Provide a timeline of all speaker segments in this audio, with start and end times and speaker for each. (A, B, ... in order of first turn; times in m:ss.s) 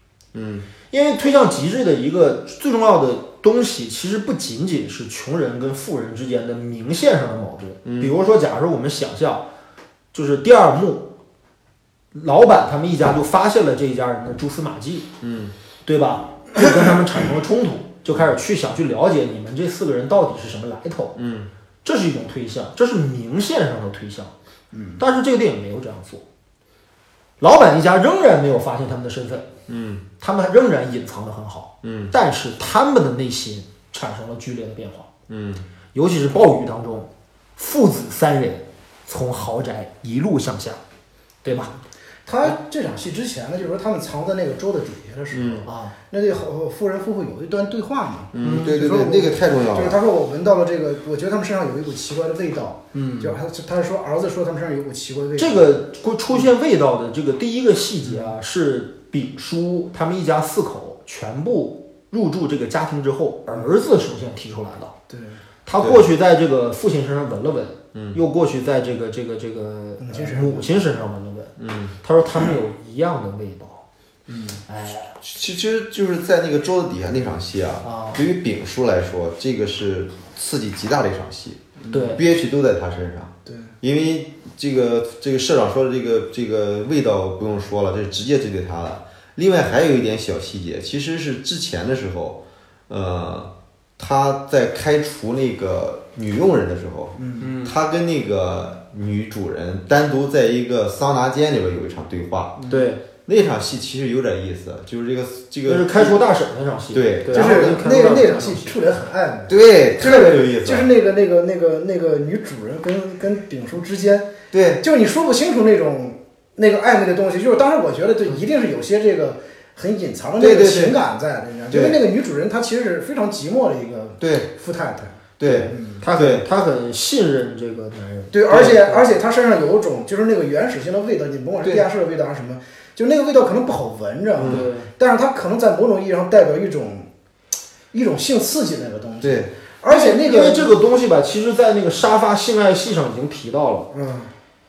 0:00.3-0:00.7 A
0:00.9-0:09.5 B
0:07.8-0:08.1 A
0:10.1-0:11.2 B
0:12.1-0:15.1 B
0:15.2-0:15.5 A
0:15.8-0:21.2 B
0:21.2-0:21.5 A
0:21.8-0:24.3 B
0:24.7-0:25.0 C
0:25.0-0:26.2 B
0:27.4-0:29.5 B
0:29.7-0:30.0 A
0:30.2-0:35.1 B
0:31.8-0:32.1 A
0:35.3-0:35.6 A
0:35.9-0:40.8 B
0:41.4-0:41.7 B
0:42.3-0:55.8 C
0:45.3-0:45.7 A
0:45.6-0:46.0 B
0:48.3-0:50.0 A
0:48.4-0:48.8 B
0:52.9-0:53.4 B
0:55.4-1:04.9 B
0:58.0-0:58.3 C
1:05.1-1:05.4 C
1:05.6-1:13.8 B
1:05.8-1:06.1 A
1:10.0-1:10.7 C
1:11.6-1:11.9 A
1:14.3-1:14.6 C
1:14.7-1:15.2 B
1:15.2-1:42.6 A
1:17.8-1:18.2 B
1:21.9-1:22.2 B
1:23.5-1:23.7 C
1:37.2-1:37.5 C
1:37.4-1:37.8 B
1:42.6-1:42.9 C
1:42.7-1:43.0 B
1:43.2-1:46.2 A
1:45.7-1:48.8 B
1:46.9-1:47.8 A
1:47.3-2:06.0 C
1:49.5-1:50.9 A
1:54.5-1:54.8 A
2:00.4-2:01.0 A
2:01.7-2:02.0 A
2:04.2-2:04.5 A
2:05.4-2:06.4 A
2:05.4-2:09.1 B
2:08.3-2:17.1 C
2:14.4-2:14.7 A
2:14.4-2:14.9 B
2:17.9-2:20.8 C
2:19.2-2:19.5 A
2:19.9-2:23.9 B
2:23.9-2:24.3 C